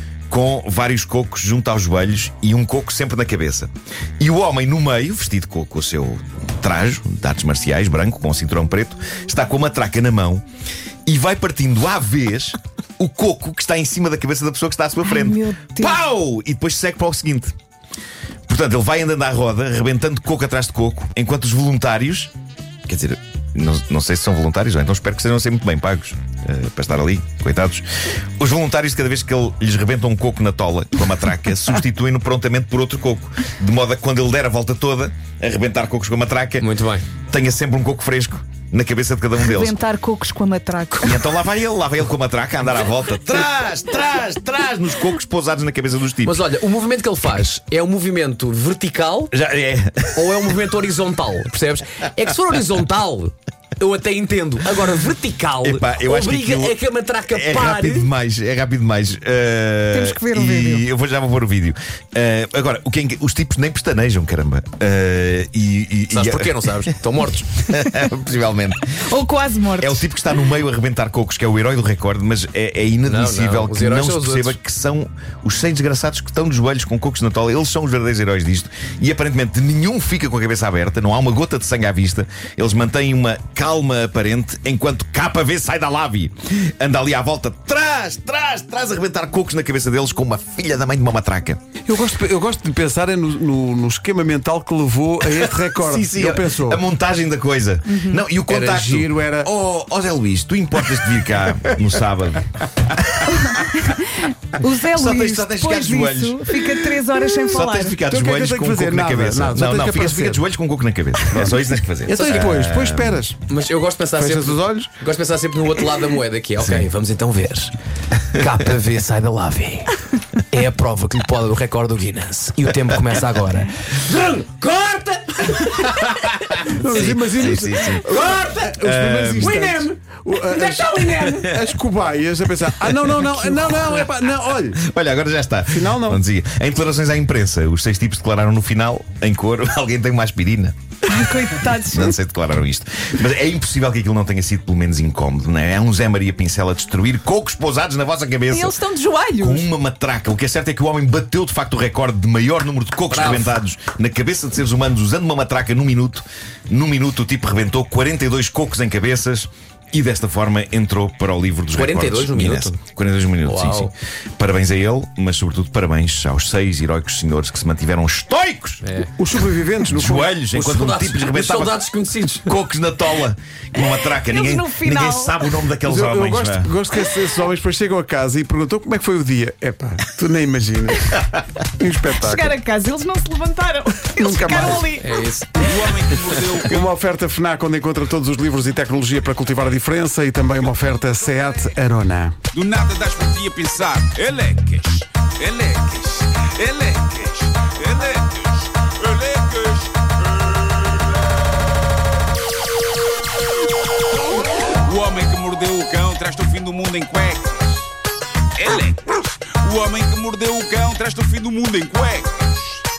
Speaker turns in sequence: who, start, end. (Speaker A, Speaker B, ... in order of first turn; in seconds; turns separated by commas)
Speaker A: 0.3-10.4, Speaker A: 11.1-17.5, Speaker B: 15.0-16.0, Speaker A: 18.5-22.3, Speaker A: 22.9-27.8, Speaker A: 28.4-36.7, Speaker C: 36.6-37.1, Speaker A: 37.3-39.8, Speaker B: 39.4-41.2, Speaker A: 41.0-46.5, Speaker C: 46.2-49.3, Speaker A: 49.3-50.4, Speaker C: 50.1-58.1, Speaker A: 55.6-56.8, Speaker A: 57.3-66.8, Speaker B: 59.9-60.9, Speaker C: 66.1-67.5, Speaker A: 67.6-69.0, Speaker B: 69.0-70.0, Speaker A: 69.8-91.6, Speaker C: 73.0-74.6, Speaker D: 91.8-96.8, Speaker A: 95.3-103.7, Speaker B: 97.9-98.2, Speaker D: 98.5-99.5, Speaker B: 103.3-108.0, Speaker A: 104.9-113.2, Speaker D: 108.1-110.5, Speaker D: 111.3-113.4, Speaker C: 112.1-112.4, Speaker C: 113.5-117.7, Speaker D: 114.1-114.9, Speaker A: 116.6-116.9, Speaker C: 118.3-127.1, Speaker D: 126.7-130.9, Speaker A: 126.8-128.1, Speaker C: 128.0-128.8, Speaker A: 128.8-129.6, Speaker C: 129.4-131.5, Speaker A: 131.2-131.4, Speaker D: 131.4-134.8, Speaker A: 132.8-134.2, Speaker A: 134.7-140.7, Speaker D: 135.7-136.2, Speaker B: 141.1-142.1, Speaker A: 141.9-148.7, Speaker B: 148.5-149.7, Speaker A: 149.4-168.8, Speaker C: 153.1-153.6, Speaker C: 161.7-162.8, Speaker C: 163.4-163.9, Speaker C: 168.8-169.1, Speaker D: 169.2-170.3, Speaker A: 169.9-176.7, Speaker C: 170.5-172.6, Speaker B: 173.8-175.4, Speaker D: 175.8-182.5, Speaker B: 182.1-185.9, Speaker D: 184.2-184.9, Speaker C: 184.9-186.6, Speaker E: 185.8-186.8, Speaker D: 186.6-192.3, Speaker E: 192.5-200.6, Speaker E: 204.6-207.8, Speaker E: 208.6-212.6